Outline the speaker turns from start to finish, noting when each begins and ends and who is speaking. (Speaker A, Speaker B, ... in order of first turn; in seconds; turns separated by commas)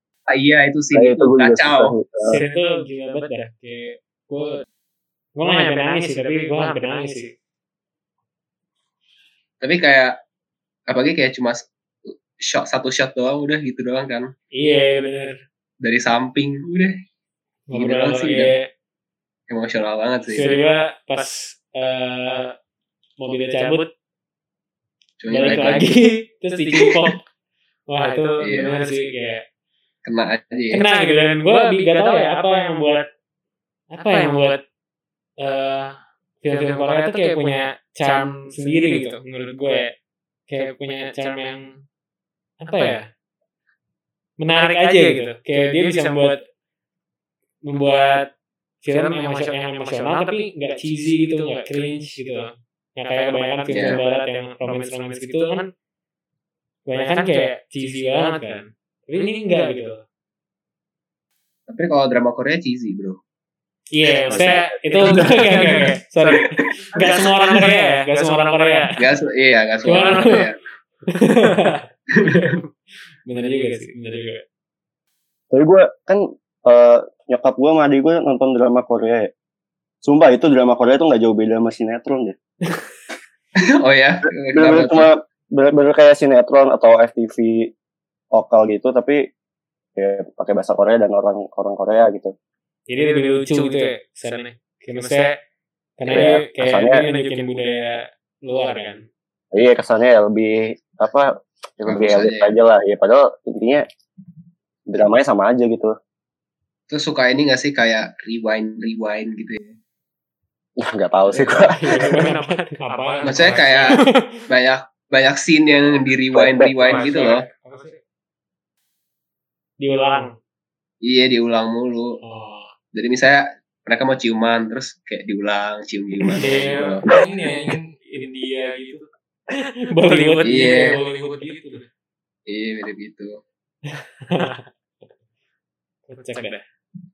Speaker A: 0.3-1.9, Speaker B: 0.9-2.4, Speaker C: 2.2-4.6, Speaker C: 5.4-7.3, Speaker A: 9.6-10.1, Speaker A: 10.9-11.7, Speaker A: 12.4-14.3, Speaker C: 14.5-15.4, Speaker A: 15.8-17.0, Speaker C: 17.7-18.7, Speaker A: 17.7-18.5, Speaker A: 19.5-20.6, Speaker C: 20.3-22.6, Speaker C: 23.2-23.9, Speaker A: 25.2-25.9, Speaker C: 25.3-27.2, Speaker C: 27.9-29.4, Speaker A: 28.4-28.8, Speaker A: 30.1-30.8, Speaker C: 30.7-33.1, Speaker C: 33.9-34.6, Speaker C: 35.4-39.9, Speaker C: 40.5-41.6, Speaker C: 42.6-43.0, Speaker C: 44.4-46.4, Speaker C: 47.7-48.3, Speaker C: 48.8-55.7, Speaker A: 53.7-54.0, Speaker C: 56.9-60.0, Speaker A: 61.7-63.2, Speaker C: 63.9-69.0, Speaker D: 65.2-65.9, Speaker A: 69.0-70.5, Speaker C: 69.8-70.5, Speaker C: 71.1-72.7, Speaker C: 73.2-74.4, Speaker B: 75.5-79.3, Speaker B: 80.0-82.3, Speaker A: 83.8-85.1, Speaker B: 84.5-87.7, Speaker B: 88.3-89.2, Speaker B: 90.0-92.3, Speaker C: 92.9-95.3, Speaker C: 96.0-99.0, Speaker B: 96.1-97.0, Speaker B: 99.5-101.3, Speaker B: 101.8-103.8, Speaker A: 101.9-102.5, Speaker B: 104.9-106.0, Speaker A: 106.9-109.7, Speaker B: 110.8-112.3, Speaker C: 111.3-112.9, Speaker D: 112.8-114.0, Speaker A: 113.2-117.4, Speaker C: 113.9-114.2, Speaker B: 116.4-116.7, Speaker D: 116.8-118.0, Speaker C: 119.8-120.3, Speaker A: 121.0-122.2, Speaker C: 122.2-122.7, Speaker A: 122.9-127.0, Speaker D: 126.4-129.1, Speaker C: 129.6-131.0, Speaker D: 130.2-131.9, Speaker A: 130.4-131.0, Speaker A: 132.5-133.4, Speaker C: 134.3-134.7, Speaker C: 136.1-136.6